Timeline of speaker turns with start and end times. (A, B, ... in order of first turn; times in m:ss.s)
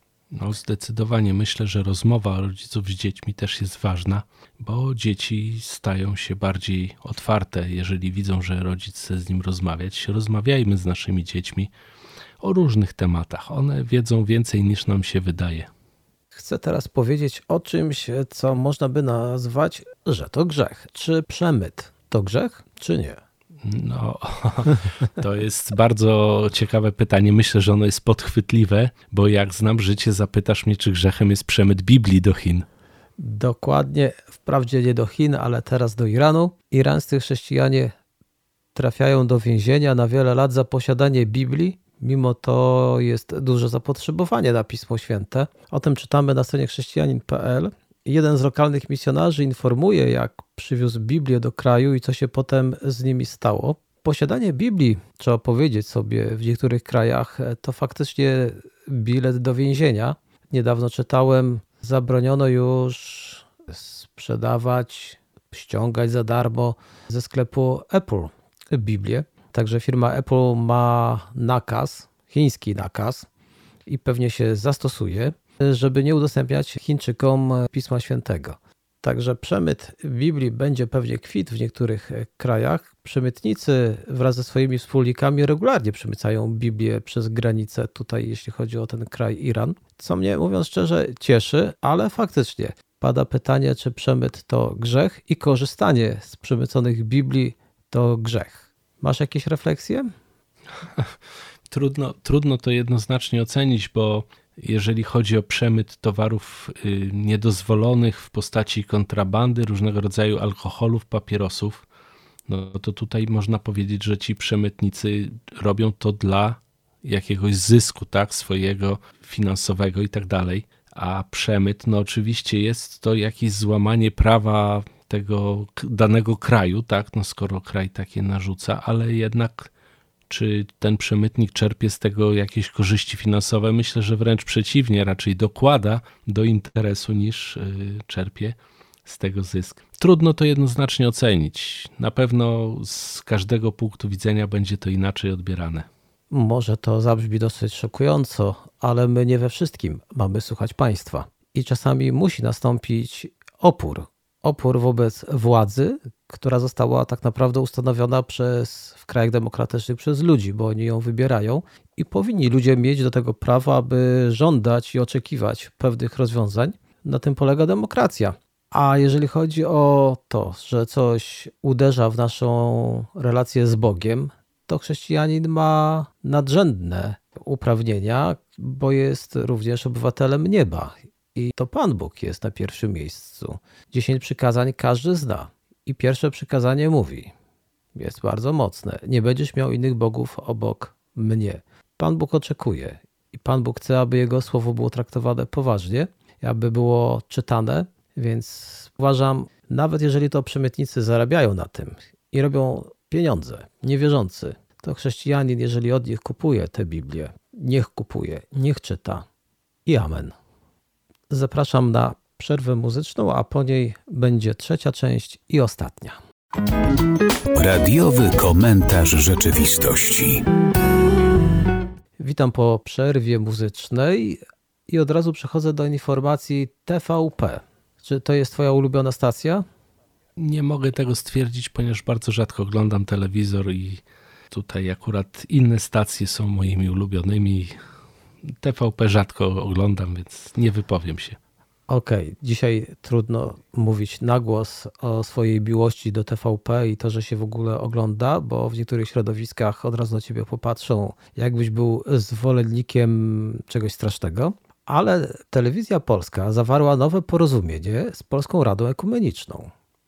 0:00.3-0:11.7 A
0:12.4-0:15.7 A
0:16.3-0:23.2 B
0:23.6-0:32.7 A
0:33.2-0:37.9 B
0:38.8-1:13.3 B
1:13.9-1:40.1 B
1:41.7-1:51.8 A
1:52.5-2:09.7 A
2:10.3-2:25.9 A
2:26.3-3:07.3 B
3:08.0-3:29.3 B
3:29.9-3:30.4 B
3:31.3-3:36.2 B
3:37.5-3:40.4 C
3:42.2-3:49.6 B
3:50.4-3:57.8 A
3:58.5-4:01.4 A
4:01.9-4:19.7 B